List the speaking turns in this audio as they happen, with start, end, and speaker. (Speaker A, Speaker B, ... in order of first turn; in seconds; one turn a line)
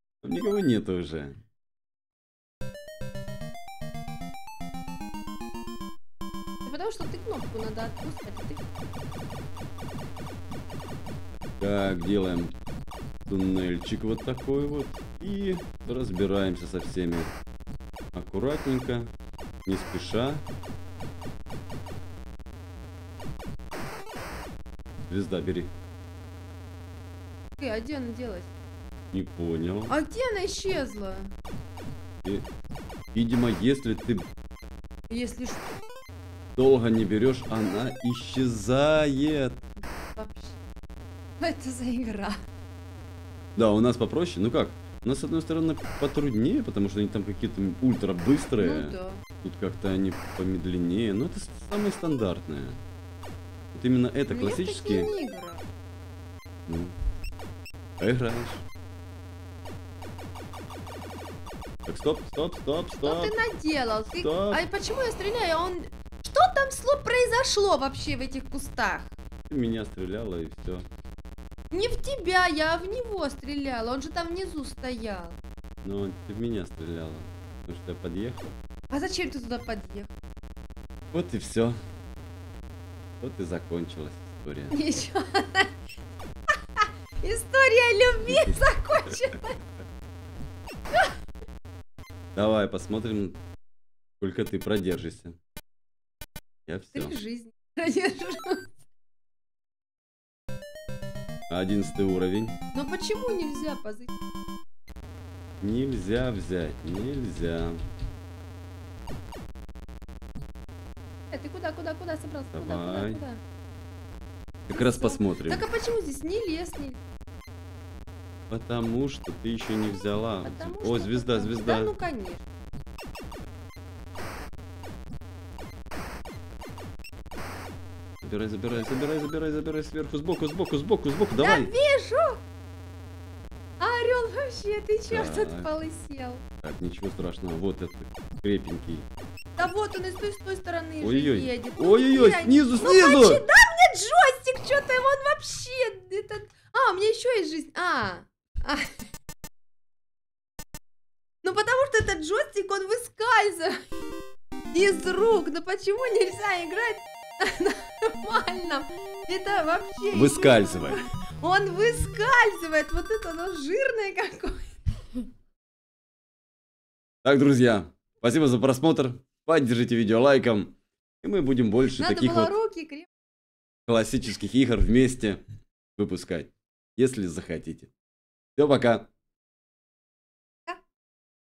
Speaker A: 0.2-1.4
Speaker B: 6.6-8.6
Speaker A: 11.6-12.5
Speaker A: 13.3-17.3
Speaker A: 18.1-19.1
Speaker A: 19.6-20.4
Speaker A: 25.1-25.7
Speaker B: 27.6-28.5
Speaker A: 29.1-29.9
Speaker B: 29.9-31.3
Speaker A: 33.1-34.3
Speaker B: 35.1-35.7
Speaker A: 36.5-39.6
Speaker B: 40.1-40.5
Speaker B: 41.4-42.4
Speaker A: 43.5-52.8
Speaker B: 48.6-49.2
Speaker A: 53.7-55.1
Speaker B: 54.3-55.6
Speaker A: 56.7-56.9
Speaker A: 58.0-58.6
Speaker A: 61.9-63.3
Speaker B: 63.0-69.2
Speaker A: 64.2-64.6
Speaker A: 69.5-70.8
Speaker B: 71.7-75.3
Speaker A: 75.8-78.5
Speaker B: 78.9-80.1
Speaker A: 81.1-81.8
Speaker A: 83.2-84.8
Speaker B: 84.7-85.7
Speaker B: 86.5-89.6
Speaker A: 88.2-88.6
Speaker A: 92.3-93.4
Speaker A: 94.2-95.3
Speaker A: 96.7-97.2
Speaker B: 96.9-98.7
Speaker A: 101.5-102.6
Speaker B: 102.7-104.1
Speaker A: 105.6-107.8
Speaker B: 111.3-113.4
Speaker A: 112.5-113.2
Speaker A: 114.7-115.7
Speaker B: 114.7-117.0
Speaker A: 118.5-121.9
Speaker B: 120.4-122.4
Speaker A: 128.2-131.7
Speaker B: 131.3-132.4
Speaker B: 133.8-136.4
Speaker A: 135.1-135.7
Speaker A: 136.6-139.1
Speaker B: 139.6-149.0
Speaker A: 141.0-143.4
Speaker B: 151.4-153.8
Speaker B: 154.7-164.7
Speaker A: 160.1-161.0
Speaker A: 167.2-172.5
Speaker B: 172.0-173.1
Speaker A: 173.9-175.4
Speaker A: 176.0-177.9
Speaker A: 178.6-179.1